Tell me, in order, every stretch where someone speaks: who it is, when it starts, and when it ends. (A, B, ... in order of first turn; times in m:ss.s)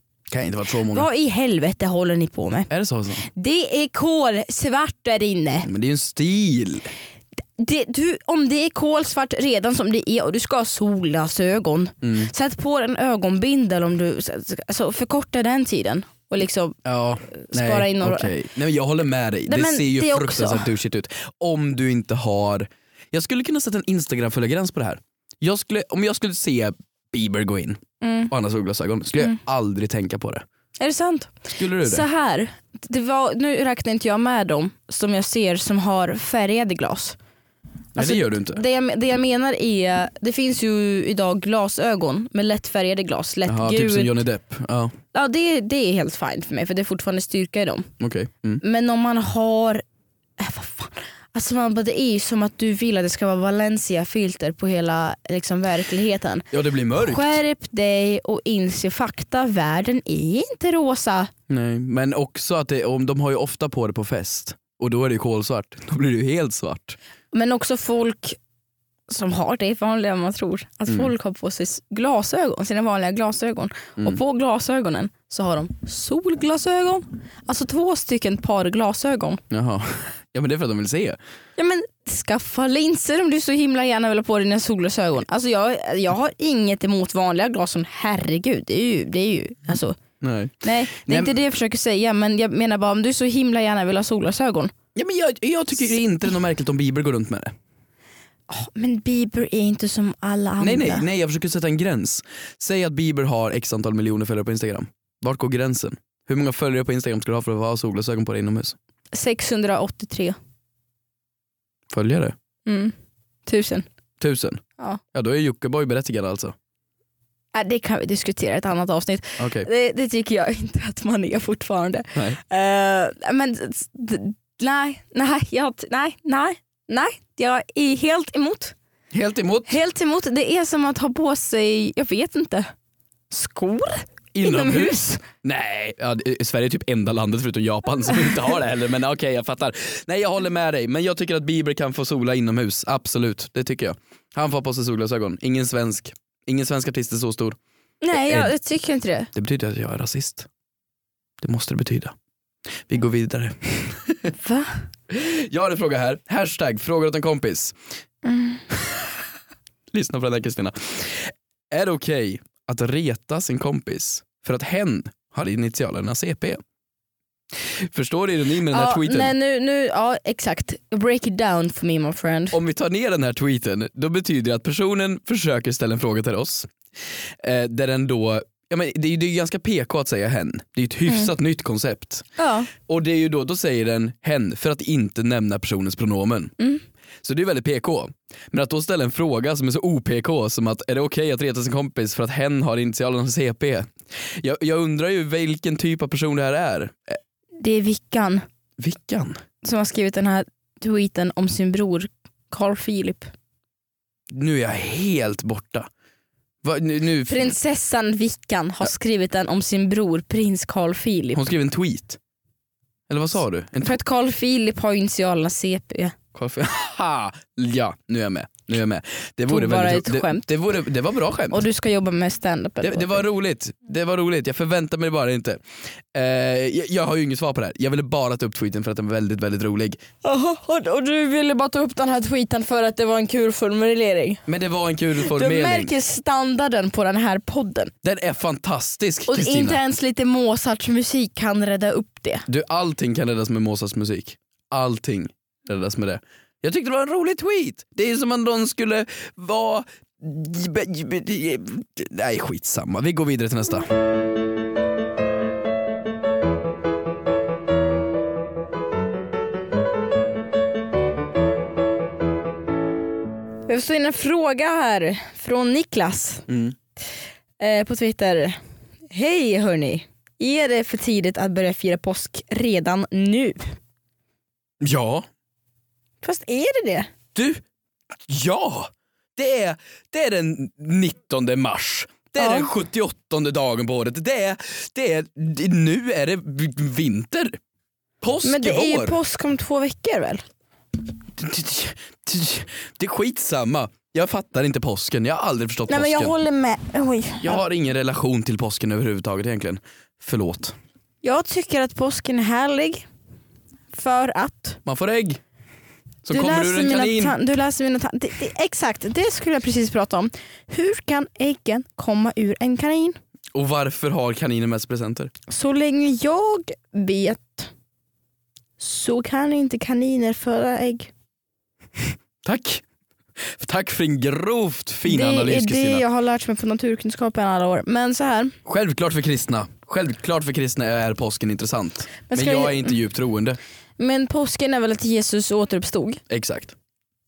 0:00.3-0:01.1 A
0:00.9-0:05.7 B
0:02.7-0:03.2 A
0:05.6-0:06.9 A
0:07.6-0:18.3 B
0:12.0-0:12.3 A
0:16.8-0:30.4 A
0:19.5-0:20.7 B
0:28.0-0:28.3 B
0:30.8-0:37.2 B
0:31.5-0:32.0 A
0:38.0-0:38.6 A
0:38.0-0:44.2 B
0:43.4-0:44.9 A
0:45.1-0:47.9 B
0:48.0-0:48.6 A
0:48.6-0:49.8 B
0:50.4-1:01.3 B
0:56.5-0:57.4 A
1:01.5-1:07.0 A
1:07.3-1:08.4 B
1:09.1-1:19.4 B
1:19.5-1:21.2 A
1:21.6-1:30.0 B
1:30.2-1:31.3 A
1:30.6-1:34.7 B
1:34.9-1:37.5 A
1:38.5-1:41.0 B
1:40.6-1:48.8 A
1:49.1-1:50.4 B
1:51.9-1:52.3 A
1:52.6-1:52.9 B
1:53.4-1:53.8 B
1:54.2-1:54.6 A
1:55.1-1:56.5 A
1:57.5-2:08.7 B
1:59.4-1:59.7 A
2:02.1-2:02.4 A
2:09.1-2:09.8 A
2:09.7-2:12.7 B
2:13.3-2:15.2 B
2:14.3-2:27.6 A
2:28.0-2:29.3 B
2:28.1-2:28.5 A
2:29.3-2:30.5 A
2:31.4-2:32.1 A
2:32.9-2:34.3 A
2:34.4-2:34.8 B
2:35.1-2:37.8 A
2:38.2-2:38.6 B
2:39.9-2:46.6 A
2:47.6-2:49.3 A
2:48.7-2:52.6 B
2:52.5-2:56.7 A
2:57.4-3:02.2 A
3:02.4-3:02.7 B
3:02.8-3:06.5 A
3:07.2-3:17.2 A
3:17.6-3:18.4 B
3:18.8-3:19.4 A
3:19.6-3:23.3 B
3:24.3-3:25.9 A
3:26.6-3:27.6 A
3:27.3-3:31.4 B
3:31.3-3:32.2 A
3:33.1-3:34.0 A
3:33.8-3:36.2 B
3:36.3-3:41.6 A
3:39.5-3:40.5 B
3:41.5-3:43.2 B
3:42.8-3:45.6 A
3:46.1-3:50.0 A
3:50.2-3:54.4 B
3:54.5-3:55.9 A
3:55.2-3:57.9 B
3:58.0-3:59.8 A
3:59.3-4:02.4 B
4:02.5-4:13.9 A
4:23.7-4:26.5 B
4:26.5-4:26.7 A
4:27.6-4:28.6 B
4:29.1-4:33.6 B
4:34.8-4:35.3 A
4:36.2-4:37.1 B
4:37.3-4:37.6 A
4:38.3-4:47.6 A
4:42.4-4:42.7 B
4:48.2-4:49.2 A
4:48.4-4:50.4 B
4:51.3-4:56.3 A
4:55.9-4:57.6 B
4:57.4-5:00.7 A
5:01.2-5:03.1 B
5:03.9-5:04.8 B
5:04.8-5:05.4 A
5:06.2-5:07.4 A
5:06.3-5:13.2 B
5:13.5-5:15.3 A
5:15.5-5:17.7 B
5:18.8-5:21.1 B
5:22.4-5:22.8 A
5:23.4-5:26.0 A
5:25.0-5:28.5 B
5:28.6-5:33.6 A
5:32.3-5:32.9 B
5:34.0-5:36.2 B
5:36.3-5:36.7 A